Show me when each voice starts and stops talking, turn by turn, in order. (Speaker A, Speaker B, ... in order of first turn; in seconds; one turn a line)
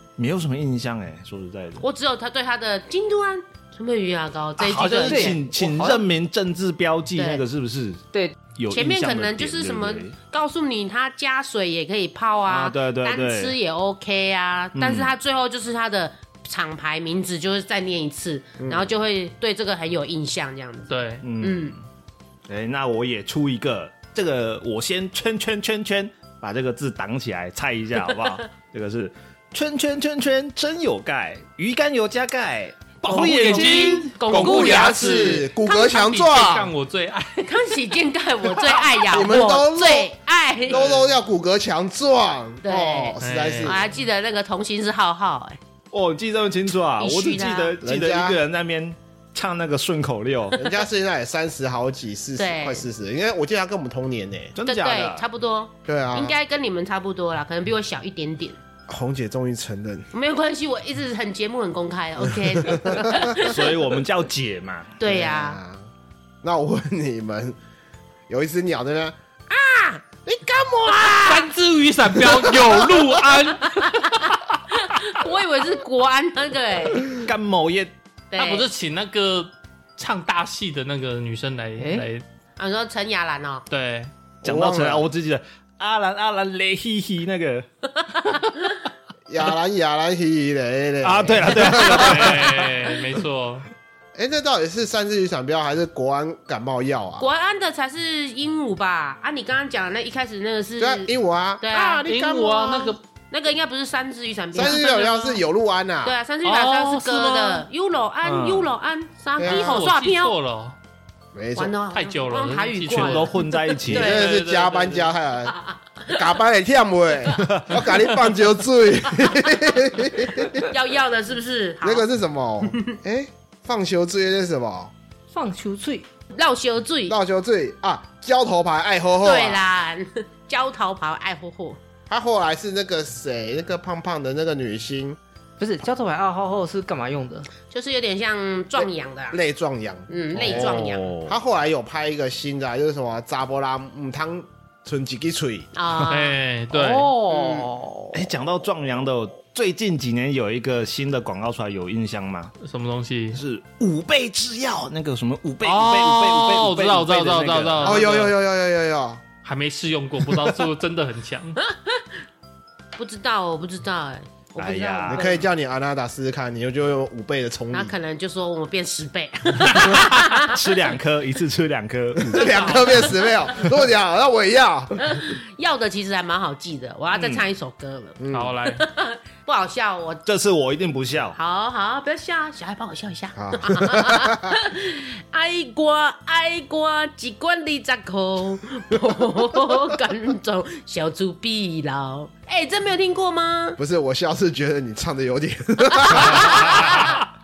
Speaker A: 0.2-1.8
Speaker B: 1.8-5.4
Speaker A: 4.6-10.2
Speaker C: 5.0-6.0
Speaker B: 7.2-7.4
Speaker C: 8.1-8.4
Speaker B: 8.7-21.8
Speaker A: 12.5-13.6
Speaker A: 14.8-15.1
Speaker D: 20.9-21.2
Speaker A: 21.2-21.8
Speaker A: 22.5-34.2
Speaker B: 33.0-36.5
Speaker D: 33.1-37.7
Speaker E: 34.3-36.7
Speaker B: 37.4-40.9
Speaker E: 39.1-40.1
Speaker E: 40.7-43.9
Speaker B: 42.6-45.6
Speaker D: 43.2-43.8
Speaker A: 45.9-50.6
Speaker B: 47.0-47.8
Speaker E: 47.8-48.4
Speaker E: 50.5-54.5
Speaker B: 52.4-52.9
Speaker A: 54.5-55.2
Speaker B: 54.6-58.6
Speaker E: 55.9-56.4
Speaker E: 58.9-60.1
Speaker B: 60.1-63.7
Speaker E: 62.6-63.4
Speaker A: 63.3-64.9
Speaker B: 65.0-65.6
Speaker E: 65.0-65.9
Speaker E: 66.4-67.6
Speaker E: 68.3-69.2
Speaker B: 69.5-70.1
Speaker E: 70.3-71.2
Speaker B: 70.6-71.5
Speaker D: 71.1-74.4
Speaker B: 73.7-77.2
Speaker A: 77.1-77.9
Speaker B: 78.3-78.7
Speaker D: 78.4-82.2
Speaker C: 81.8-82.1
Speaker B: 82.6-83.7
Speaker D: 83.7-84.1
Speaker E: 84.4-85.1
Speaker A: 84.4-87.7
Speaker E: 89.3-92.5
Speaker A: 91.0-92.8
Speaker D: 91.7-93.7
Speaker E: 94.2-97.3
Speaker B: 97.2-102.1
Speaker E: 100.8-103.0
Speaker D: 102.0-103.0
Speaker B: 103.3-105.4
Speaker E: 104.5-106.2
Speaker B: 106.0-110.3
Speaker D: 106.4-107.7
Speaker A: 108.2-108.7
Speaker E: 109.4-109.8
Speaker D: 109.4-110.8
Speaker E: 111.3-111.7
Speaker B: 111.6-114.4
Speaker D: 111.9-113.5
Speaker A: 112.9-114.1
Speaker E: 113.8-115.5
Speaker D: 114.0-115.1
Speaker B: 115.5-116.2
Speaker E: 116.1-120.7
Speaker A: 117.4-117.8
Speaker B: 120.5-122.1
Speaker E: 121.8-124.9
Speaker C: 125.3-126.1
Speaker B: 126.3-127.2
Speaker E: 127.1-129.6
Speaker B: 129.2-131.8
Speaker E: 132.1-135.2
Speaker C: 135.6-137.5
Speaker B: 137.7-139.4
Speaker E: 139.3-145.7
Speaker B: 140.1-141.1
Speaker A: 140.4-141.4
Speaker B: 145.7-146.4
Speaker D: 146.1-147.2
Speaker C: 146.7-148.2
Speaker B: 147.3-147.7
Speaker A: 148.1-152.5
Speaker D: 152.6-153.4
Speaker A: 153.3-158.2
Speaker D: 155.6-158.3
Speaker E: 157.8-159.2
Speaker D: 159.4-161.6
Speaker B: 161.7-162.0
Speaker B: 163.0-165.5
Speaker A: 164.6-165.3
Speaker E: 165.1-167.9
Speaker B: 167.7-170.6
Speaker A: 169.8-172.8
Speaker E: 172.2-175.1
Speaker D: 172.4-173.2
Speaker B: 175.0-180.2
Speaker A: 177.1-177.4
Speaker E: 178.2-178.5
Speaker D: 178.3-178.8
Speaker A: 180.3-181.4
Speaker B: 181.3-193.8
Speaker E: 183.4-184.5
Speaker E: 193.8-196.9
Speaker B: 195.9-197.2